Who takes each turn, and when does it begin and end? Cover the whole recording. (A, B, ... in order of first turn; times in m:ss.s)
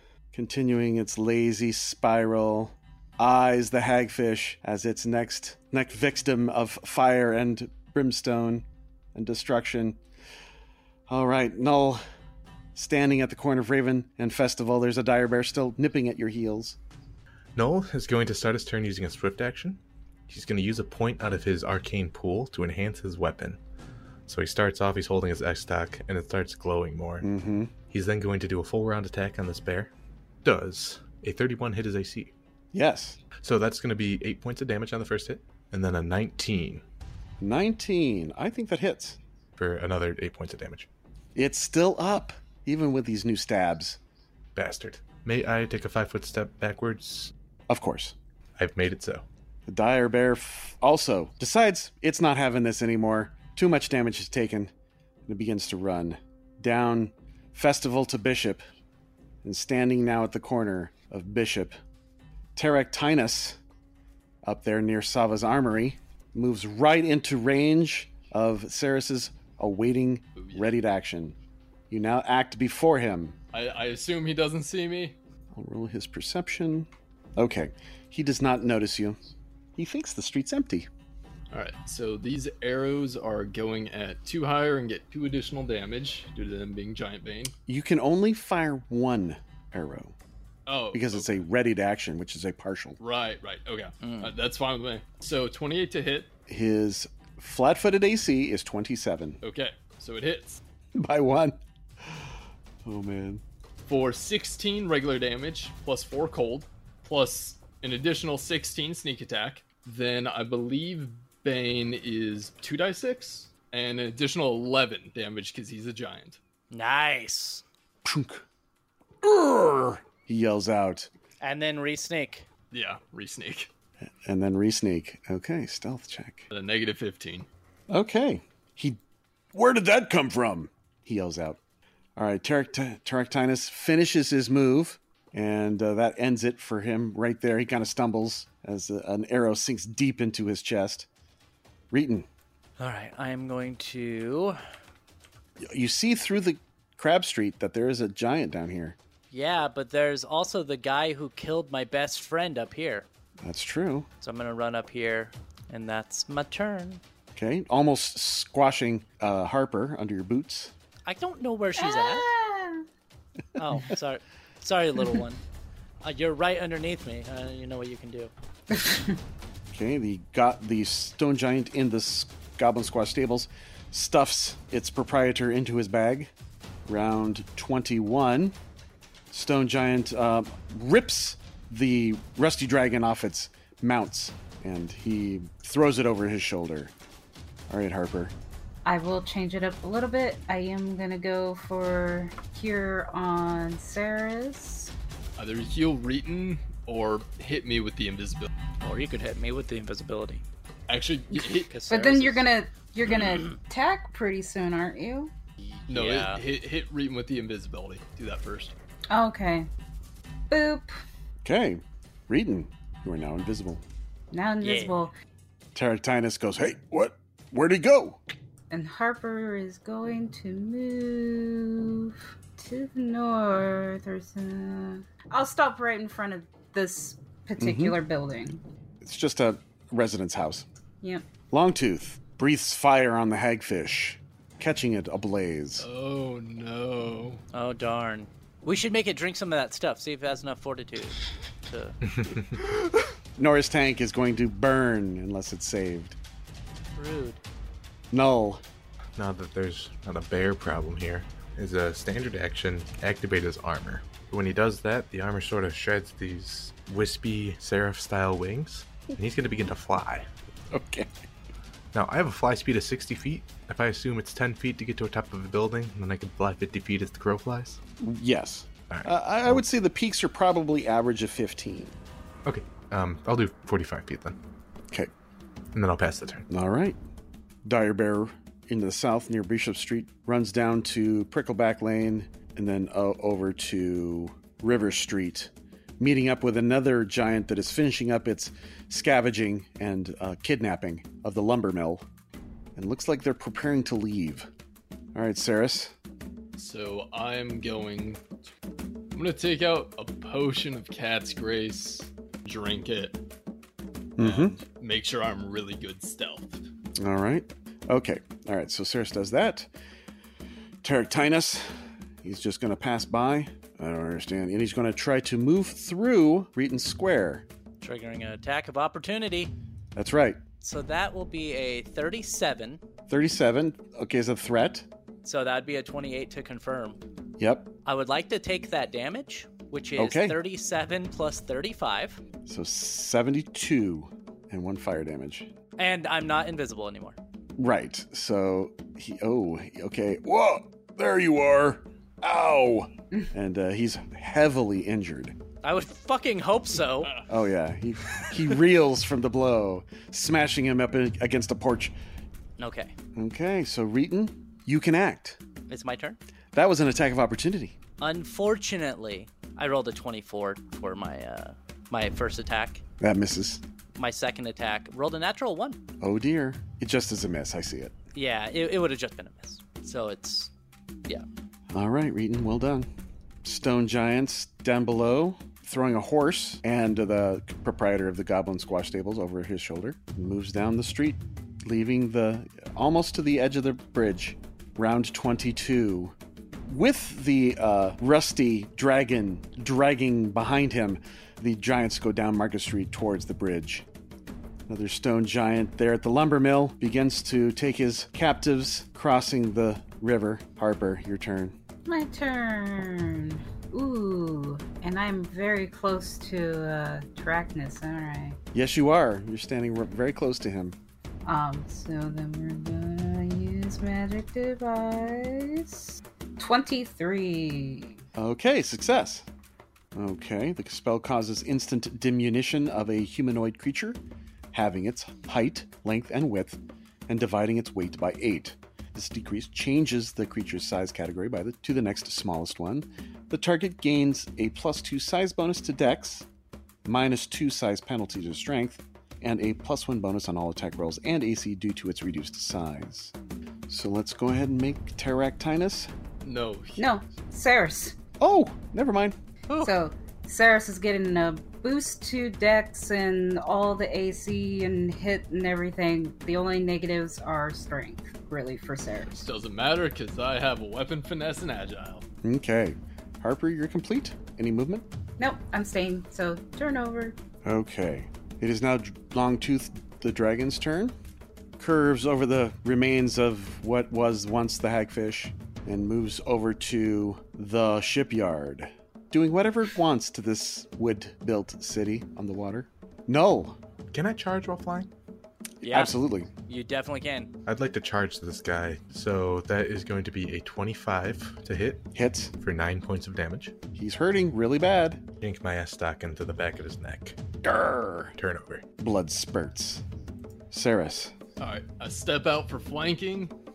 0:00.3-0:10.0 A
0:11.1-0:12.0 A
0:12.7-0:16.8 A
0:17.6-0:23.6 B
0:24.3-0:27.3 B
0:27.2-0:27.7 A
0:27.9-0:29.9 B
0:30.4-0:32.3 B
0:32.7-0:33.2 A
0:33.4-0:36.8 B
0:37.4-0:39.2 A
0:39.6-0:40.9 B
0:41.3-0:44.0 A
0:44.5-0:47.3 B
0:47.7-0:48.1 A
0:48.6-0:49.2 B
0:49.7-0:54.7 A
0:55.3-0:58.6 A
0:59.4-1:01.8 A
1:02.6-1:03.6 A
1:04.4-1:11.4 A
1:10.4-1:10.7 C
1:11.9-1:13.4 A
1:13.5-1:15.2 C
1:15.5-1:19.2 A
1:19.8-1:20.9 A
1:21.5-1:27.5 C
1:27.7-1:30.1 A
1:30.6-1:31.4 C
1:30.9-1:33.0 A
1:33.0-1:36.3 C
1:34.0-1:34.3 D
1:36.5-1:39.4 A
1:39.4-1:40.6 C
1:41.0-1:43.4 A
1:43.9-1:56.4 C
1:56.7-1:57.6 D
1:58.0-1:58.4 A
1:59.2-2:01.1 A
2:01.4-2:02.5 D
2:02.7-2:03.7 C
2:04.2-2:06.5 A
2:06.5-2:07.5 C
2:07.9-2:09.0 A
2:09.5-2:11.6 A
2:12.2-2:21.1 A
2:21.9-2:22.3 A
2:22.8-2:24.6 D
2:25.6-2:29.0 A
2:29.3-2:33.1 D
2:33.4-2:34.1 A
2:34.2-2:37.0 D
2:37.3-2:40.7 A
2:41.0-2:42.3 D
2:41.8-2:42.8 E
2:43.6-2:45.4 D
2:46.0-2:48.3 D
2:48.7-2:49.2 E
2:49.7-2:56.3 A
2:56.8-2:58.6 A
2:59.3-3:06.9 A
3:07.7-3:08.3 A
3:08.8-3:14.9 E
3:15.4-3:18.5 C
3:18.8-3:20.4 D
3:20.9-3:21.7 C
3:21.5-3:25.3 E
3:21.7-3:22.4 D
3:25.6-3:26.4 D
3:25.9-3:28.7 C
3:29.1-3:29.7 E
3:30.5-3:31.0 E
3:31.4-3:33.8 A
3:34.3-3:35.1 E
3:34.6-3:35.1 D
3:35.7-3:38.2 A
3:38.7-3:48.6 E
3:47.6-3:48.0 A
3:49.0-3:50.6 A
3:51.5-3:55.9 A
3:55.8-3:57.4 C
3:57.5-4:02.0 D
4:02.1-4:02.5 B
4:03.4-4:06.2 A
4:06.9-4:07.4 D
4:08.1-4:08.6 A
4:09.2-4:20.3 B
4:20.7-4:21.1 A
4:21.9-4:27.8 B
4:28.0-4:31.9 A
4:28.9-4:29.6 B
4:32.4-4:34.4 B
4:35.7-4:36.4 B
4:36.5-4:37.0 A
4:37.6-4:52.0 A
4:52.8-4:54.5 A
4:55.1-4:55.9 A
4:56.6-4:58.3 C
4:59.1-5:03.2 C
5:04.2-5:04.6 A
5:04.2-5:06.6 C
5:07.0-5:09.7 A
5:10.8-5:11.6 A
5:12.2-5:17.4 A
5:17.8-5:19.5 D
5:20.0-5:20.4 A
5:20.6-5:22.8 D
5:23.1-5:24.8 A
5:25.2-5:27.0 D
5:27.4-5:27.7 A
5:27.8-5:32.2 D
5:30.0-5:30.4 A
5:32.4-5:35.5 A
5:35.8-5:37.2 D
5:37.6-5:45.4 A
5:45.6-5:47.2 D
5:47.0-5:47.3 C
5:47.3-5:52.0 A
5:52.6-5:52.9 D
5:53.1-5:55.4 A
5:55.7-5:56.2 D
5:56.5-5:57.8 A
5:58.0-6:02.8 D
6:03.0-6:03.6 A
6:04.0-6:05.8 D
6:06.0-6:07.9 A
6:08.1-6:10.5 D
6:11.7-6:12.9 A
6:13.4-6:26.1 A
6:26.6-6:33.8 A
6:34.7-6:41.6 A
6:41.8-6:48.4 E
6:48.5-6:50.8 A
6:51.2-6:58.0 E
6:58.2-6:59.3 A
6:59.9-7:04.0 A
7:04.5-7:16.3 A
7:16.8-7:23.1 A
7:23.7-7:25.9 A
7:26.2-7:26.8 C
7:26.8-7:28.0 E
7:28.2-7:29.2 A
7:29.6-7:39.2 E
7:39.1-7:42.0 C
7:42.2-7:44.8 A
7:45.2-7:47.2 E
7:47.4-7:50.9 A
7:51.6-8:03.6 A
8:03.9-8:04.9 B
8:05.6-8:06.3 A
8:05.6-8:07.3 D
8:07.5-8:13.6 B
8:11.9-8:12.3 A
8:13.7-8:15.0 A
8:15.2-8:17.2 B
8:17.4-8:18.2 A
8:18.2-8:18.6 B
8:18.8-8:19.8 A
8:20.5-8:21.1 A
8:21.4-8:23.3 C